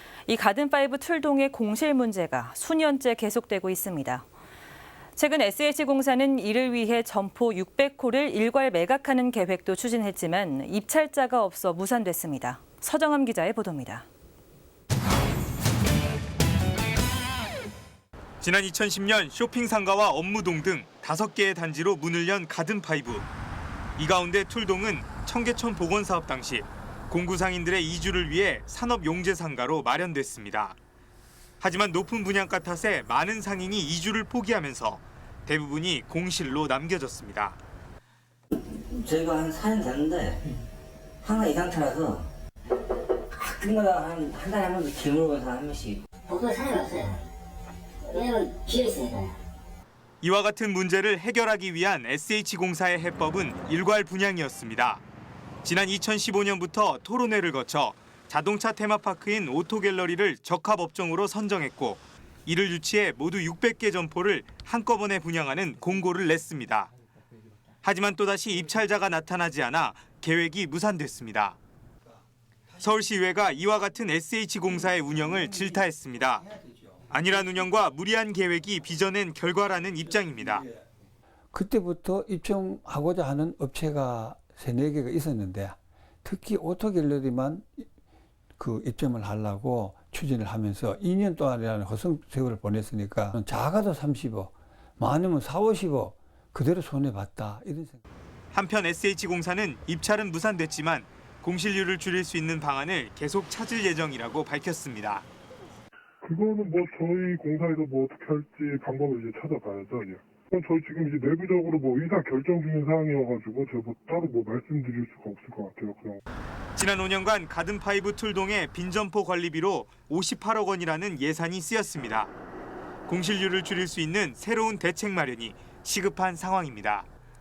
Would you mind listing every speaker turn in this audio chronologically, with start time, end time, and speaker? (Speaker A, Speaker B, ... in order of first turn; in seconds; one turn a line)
Speaker A: 0.2-4.2
Speaker A: 5.2-14.1
Speaker B: 18.4-23.2
Speaker B: 24.0-30.8
Speaker B: 31.6-37.6
Speaker C: 38.7-40.4
Speaker C: 41.2-42.3
Speaker C: 43.3-46.0
Speaker D: 46.2-47.2
Speaker D: 48.0-49.4
Speaker B: 50.2-55.0
Speaker B: 55.6-66.9
Speaker B: 67.8-71.6
Speaker B: 72.8-76.5
Speaker B: 77.1-80.7
Speaker E: 81.5-87.8
Speaker E: 88.6-98.0
Speaker B: 98.5-105.2
Speaker F: 106.2-116.2
Speaker B: 116.7-122.3
Speaker B: 123.1-127.1